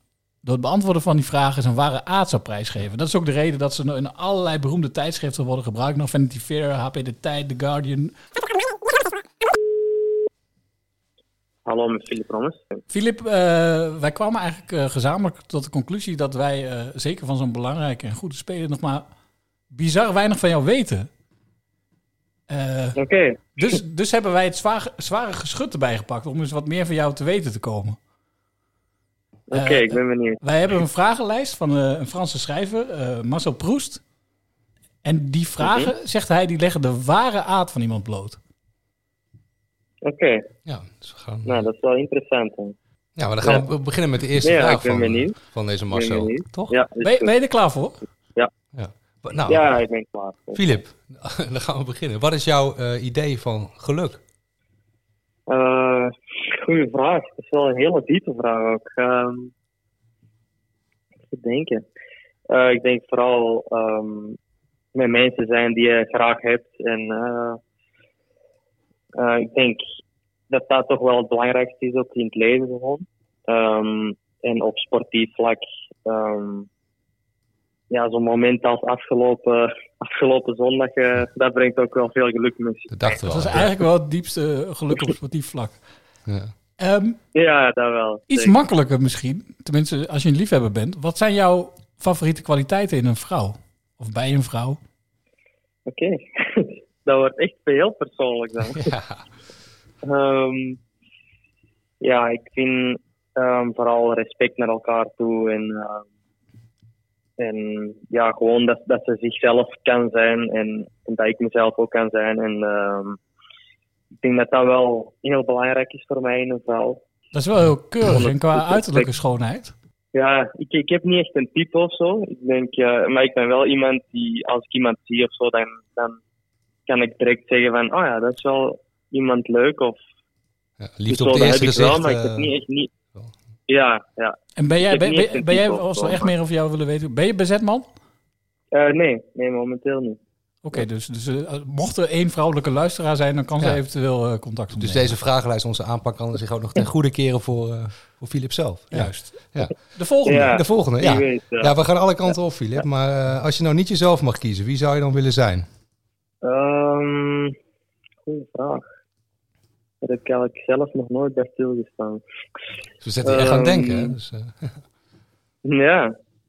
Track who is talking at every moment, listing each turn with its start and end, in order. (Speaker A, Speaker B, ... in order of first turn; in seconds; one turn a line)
Speaker A: 0.4-8.1
Speaker B: 11.6-12.6
Speaker A: 12.9-19.1
Speaker A: 19.7-21.1
Speaker A: 22.5-23.0
Speaker B: 22.9-23.8
Speaker A: 23.6-28.0
Speaker B: 29.5-30.4
Speaker A: 29.5-34.0
Speaker A: 35.0-38.4
Speaker B: 35.6-35.9
Speaker B: 40.0-40.4
Speaker C: 40.6-41.6
Speaker B: 41.4-42.8
Speaker C: 43.2-46.7
Speaker B: 44.4-45.3
Speaker B: 45.9-47.3
Speaker A: 47.0-48.0
Speaker C: 48.7-49.7
Speaker B: 49.4-50.7
Speaker C: 50.5-54.2
Speaker B: 55.5-59.5
Speaker B: 61.3-61.8
Speaker B: 62.5-64.4
Speaker B: 64.9-67.6
Speaker B: 69.2-69.8
Speaker B: 70.5-76.7
Speaker B: 77.9-83.2
Speaker C: 82.9-83.7
Speaker A: 83.3-85.8
Speaker C: 86.3-86.5
Speaker A: 86.8-87.2
Speaker B: 87.3-88.5
Speaker A: 88.3-94.8
Speaker B: 95.8-98.8
Speaker C: 98.7-99.2
Speaker B: 100.0-100.8
Speaker B: 102.0-106.0
Speaker B: 107.4-113.2
Speaker B: 114.2-117.0
Speaker A: 117.3-119.7
Speaker B: 118.0-119.1
Speaker B: 120.1-126.2
Speaker B: 126.9-130.0
Speaker C: 130.8-132.5
Speaker B: 131.1-132.9
Speaker B: 133.7-136.3
Speaker A: 134.6-137.9
Speaker B: 138.7-140.2
Speaker A: 140.6-145.1
Speaker C: 144.8-149.8
Speaker A: 148.9-149.4
Speaker A: 149.9-150.6
Speaker B: 150.2-151.7
Speaker C: 150.4-155.7
Speaker B: 152.3-152.8
Speaker B: 156.4-157.5
Speaker B: 158.2-158.8
Speaker B: 160.0-162.2
Speaker C: 163.0-164.8
Speaker B: 163.2-164.2
Speaker B: 165.6-166.1